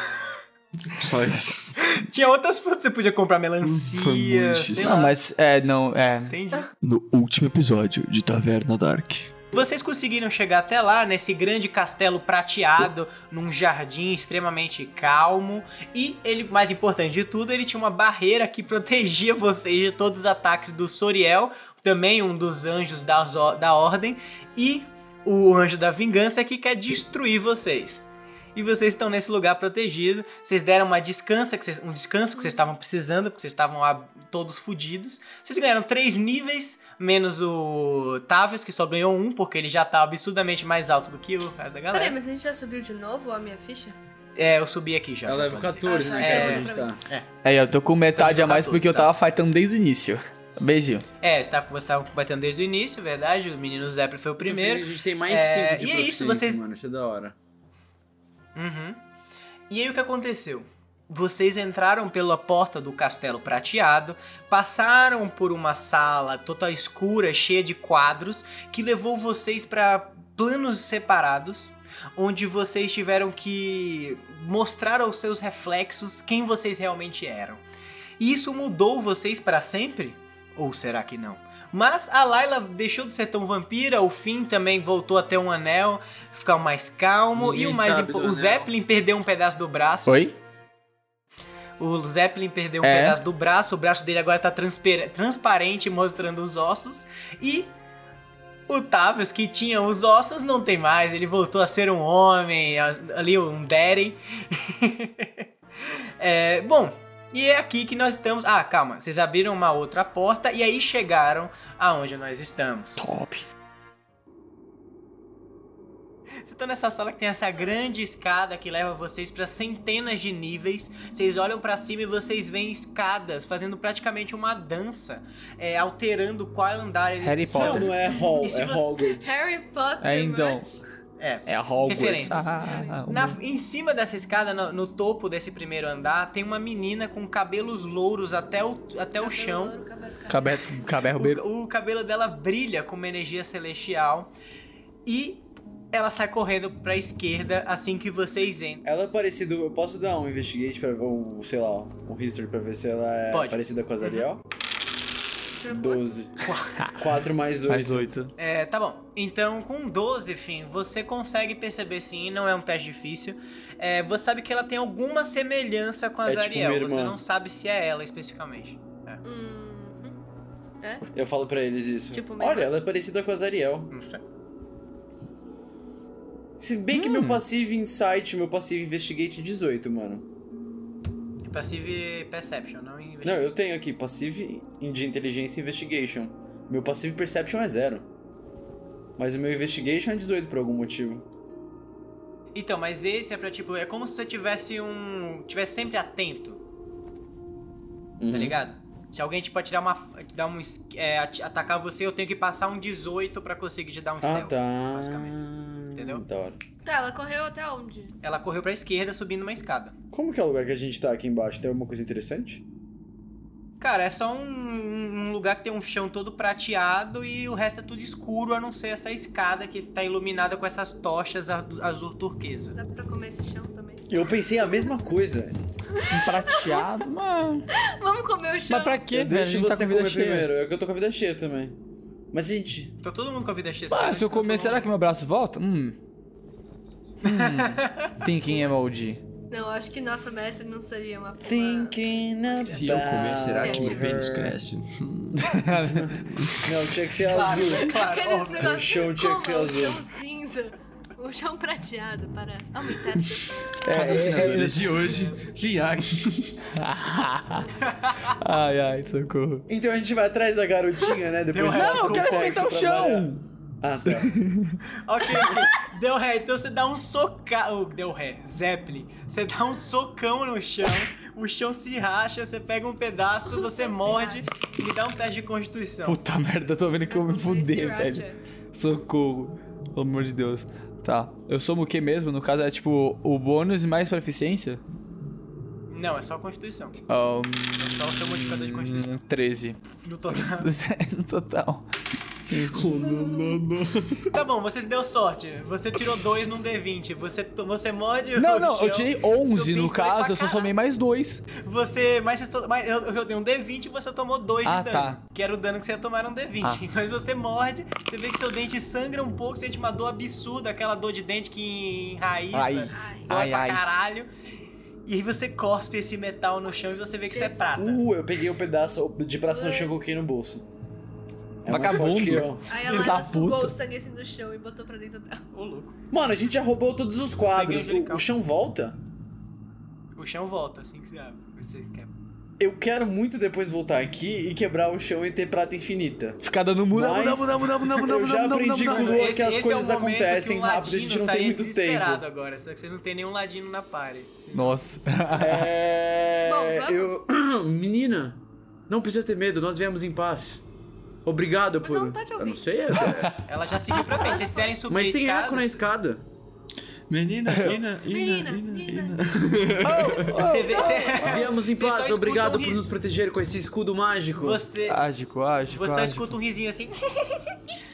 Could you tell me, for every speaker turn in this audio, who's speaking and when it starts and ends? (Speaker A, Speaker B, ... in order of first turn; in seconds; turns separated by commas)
Speaker A: 0.9-1.9, Speaker B: 1.8-5.1, Speaker A: 3.6-5.1, Speaker C: 4.8-6.4, Speaker B: 6.3-6.7, Speaker A: 6.8-9.3, Speaker B: 9.5-28.0, Speaker B: 28.5-42.1, Speaker D: 41.9-44.0, Speaker B: 44.4-47.3, Speaker E: 45.2-47.0, Speaker D: 45.8-46.9, Speaker C: 47.4-51.0, Speaker B: 48.1-49.1, Speaker B: 51.2-56.6, Speaker E: 54.4-57.3, Speaker B: 58.5-59.0, Speaker B: 59.7-77.6, Speaker B: 78.2-90.1, Speaker E: 87.3-88.7, Speaker C: 90.0-90.3, Speaker B: 91.8-97.7, Speaker C: 92.8-93.2, Speaker B: 98.7-113.0, Speaker C: 113.0-113.5, Speaker B: 116.4-129.0, Speaker C: 127.2-127.9, Speaker E: 127.5-129.3, Speaker D: 127.9-128.6, Speaker D: 129.2-130.8, Speaker C: 130.0-130.8, Speaker B: 131.2-139.7, Speaker C: 131.4-133.4, Speaker D: 132.4-133.0, Speaker D: 139.2-140.8, Speaker C: 140.3-141.4, Speaker B: 141.2-144.3, Speaker B: 145.1-148.8, Speaker E: 148.8-154.4, Speaker B: 153.3-154.2, Speaker D: 155.6-156.0, Speaker E: 155.7-158.1, Speaker B: 156.4-156.8, Speaker C: 157.7-158.3, Speaker B: 158.4-169.2, Speaker E: 166.2-167.2, Speaker D: 169.2-170.2, Speaker E: 171.1-173.9, Speaker D: 172.1-172.7, Speaker B: 173.9-174.2, Speaker E: 176.6-180.2, Speaker C: 176.9-177.4, Speaker B: 181.4-183.5, Speaker E: 183.2-188.1, Speaker E: 189.2-191.2, Speaker B: 192.5-196.6, Speaker E: 198.2-198.6, Speaker B: 198.3-205.4, Speaker E: 204.2-206.6, Speaker B: 205.9-206.2, Speaker D: 206.8-208.1, Speaker B: 208.2-209.9, Speaker E: 210.1-212.6, Speaker B: 213.8-222.8, Speaker D: 222.7-224.1, Speaker E: 224.1-225.6, Speaker D: 225.9-226.8, Speaker C: 226.1-227.7, Speaker D: 227.7-229.0, Speaker C: 228.7-230.5, Speaker E: 229.1-231.8, Speaker E: 232.3-232.9, Speaker B: 233.0-234.9, Speaker C: 233.9-235.9, Speaker C: 237.2-239.2, Speaker B: 237.2-238.2, Speaker D: 238.5-238.7, Speaker D: 239.5-242.7, Speaker E: 241.4-244.6, Speaker A: 242.7-246.9, Speaker D: 243.6-244.1, Speaker C: 245.3-246.2, Speaker E: 246.6-250.0, Speaker B: 247.2-248.8, Speaker D: 247.5-253.6, Speaker A: 253.3-256.7, Speaker C: 253.8-255.2, Speaker E: 253.9-254.6, Speaker C: 256.7-259.6, Speaker B: 257.8-258.3, Speaker E: 259.7-263.3, Speaker B: 261.5-262.6, Speaker C: 261.7-263.4, Speaker E: 263.8-264.3, Speaker C: 264.1-264.8, Speaker B: 264.9-276.2, Speaker D: 265.4-265.9, Speaker D: 273.5-274.5, Speaker C: 276.0-284.8, Speaker D: 277.1-278.4, Speaker B: 285.9-287.0, Speaker C: 287.1-289.8, Speaker B: 287.8-289.2, Speaker B: 290.0-290.7, Speaker C: 290.6-291.9, Speaker C: 292.5-293.0, Speaker A: 292.5-294.3, Speaker D: 293.1-293.6, Speaker B: 294.3-300.7, Speaker C: 298.4-301.4, Speaker B: 301.6-314.3, Speaker C: 304.6-305.2, Speaker C: 312.5-313.9, Speaker D: 312.9-313.3, Speaker B: 315.1-318.0, Speaker D: 317.3-317.8, Speaker E: 317.8-320.6, Speaker D: 319.4-319.9, Speaker E: 321.6-322.7, Speaker C: 321.6-323.7, Speaker D: 322.7-325.4, Speaker B: 325.5-325.9, Speaker E: 326.1-329.0, Speaker B: 327.4-328.2, Speaker B: 330.2-332.1, Speaker E: 332.6-336.4, Speaker C: 336.4-339.3, Speaker E: 336.9-342.2, Speaker B: 338.9-344.8, Speaker C: 344.5-345.7, Speaker E: 345.4-350.6, Speaker D: 346.4-347.1, Speaker E: 351.2-353.3, Speaker D: 351.8-352.6, Speaker C: 353.0-353.4, Speaker B: 353.4-355.8, Speaker D: 354.2-354.7, Speaker E: 354.9-356.2, Speaker A: 357.1-360.4, Speaker C: 357.5-357.8, Speaker B: 357.6-357.9, Speaker D: 358.0-359.3, Speaker C: 359.8-361.2, Speaker B: 360.3-362.8, Speaker D: 360.8-361.2, Speaker E: 361.2-364.6, Speaker B: 364.4-365.0, Speaker C: 364.9-366.4, Speaker B: 365.7-367.6